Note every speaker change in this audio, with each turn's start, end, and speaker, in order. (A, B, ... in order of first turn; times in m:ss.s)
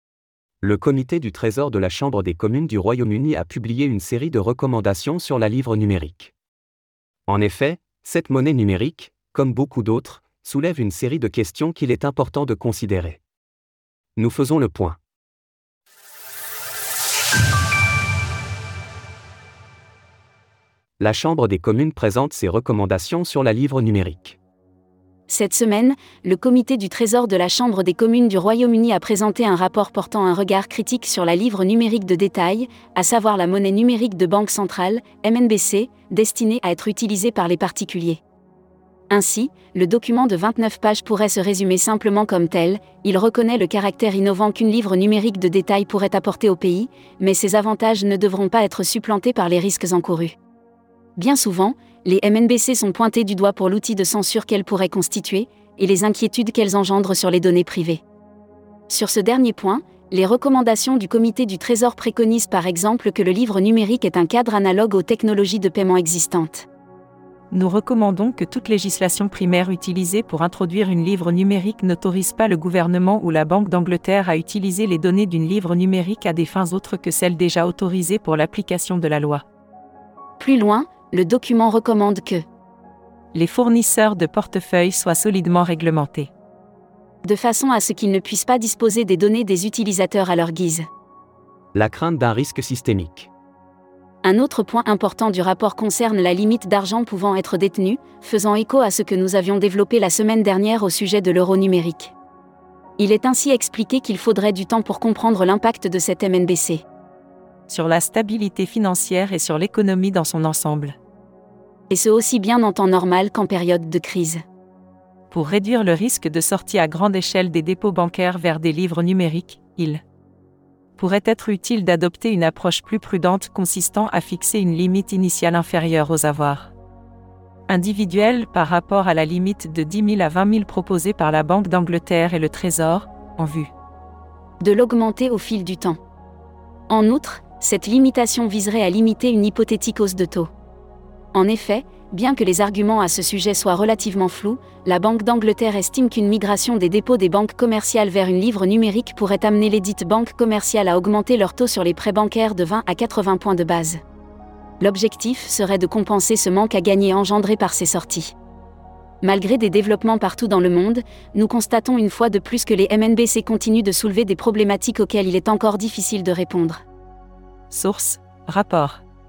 0:00.6-0:06.3 A
0:07.3-0:13.2 A
0:14.2-0:15.0 A
0:21.0-0:24.4 A
0:25.3-0:38.2 B
0:39.1-0:50.4 B
0:51.2-0:58.0 B
0:58.9-1:06.7 B
1:07.5-1:19.4 C
1:20.4-1:22.4 B
1:23.3-1:26.3 C
1:27.2-1:30.8 B
1:31.7-1:33.3 A
1:34.2-1:42.1 B
1:43.0-1:46.8 B
1:47.7-1:51.0 C
1:51.9-1:54.4 B
1:55.3-2:00.0 C
2:01.0-2:06.7 C
2:07.7-2:13.7 C
2:14.6-2:16.0 B
2:16.9-2:20.5 B
2:21.3-2:34.0 B
2:34.8-2:38.3 B
2:39.2-2:46.8 B
2:47.7-2:49.0 C